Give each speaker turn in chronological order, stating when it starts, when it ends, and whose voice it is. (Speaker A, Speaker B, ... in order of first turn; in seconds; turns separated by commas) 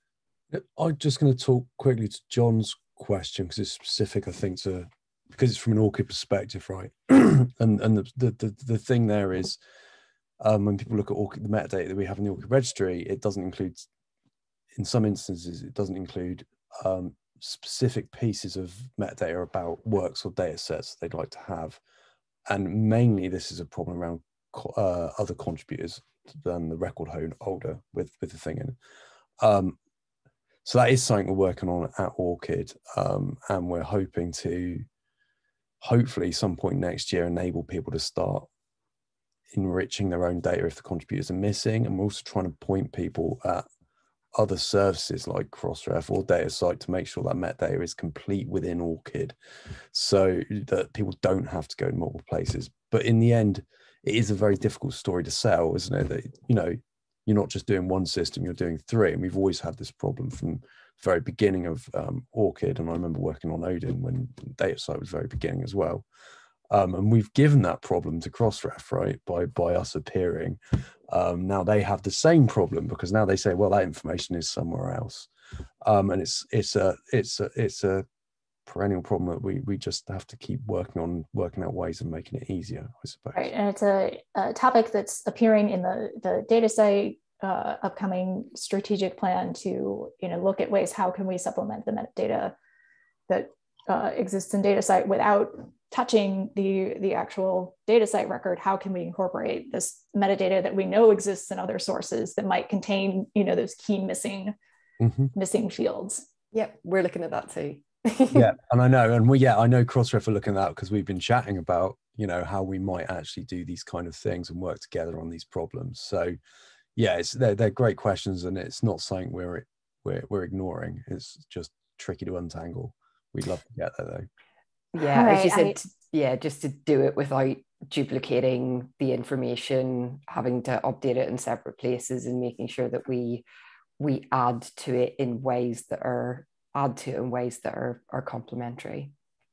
Speaker A: 0.5-9.6, Speaker A: 10.4-13.9, Speaker A: 14.8-21.8, Speaker A: 22.5-28.8, Speaker A: 29.4-29.8, Speaker A: 30.6-34.9, Speaker A: 35.8-38.5, Speaker A: 39.5-43.6, Speaker A: 44.4-49.4, Speaker A: 49.9-66.1, Speaker A: 66.7-70.6, Speaker A: 71.1-75.3, Speaker A: 75.8-78.0, Speaker A: 78.7-83.5, Speaker B: 83.3-92.5, Speaker B: 93.3-104.6, Speaker A: 105.0-105.3, Speaker B: 105.4-106.2, Speaker C: 106.5-108.5, Speaker A: 108.3-116.4, Speaker A: 117.0-124.3, Speaker C: 124.9-133.5, Speaker B: 125.0-125.8, Speaker C: 134.0-139.1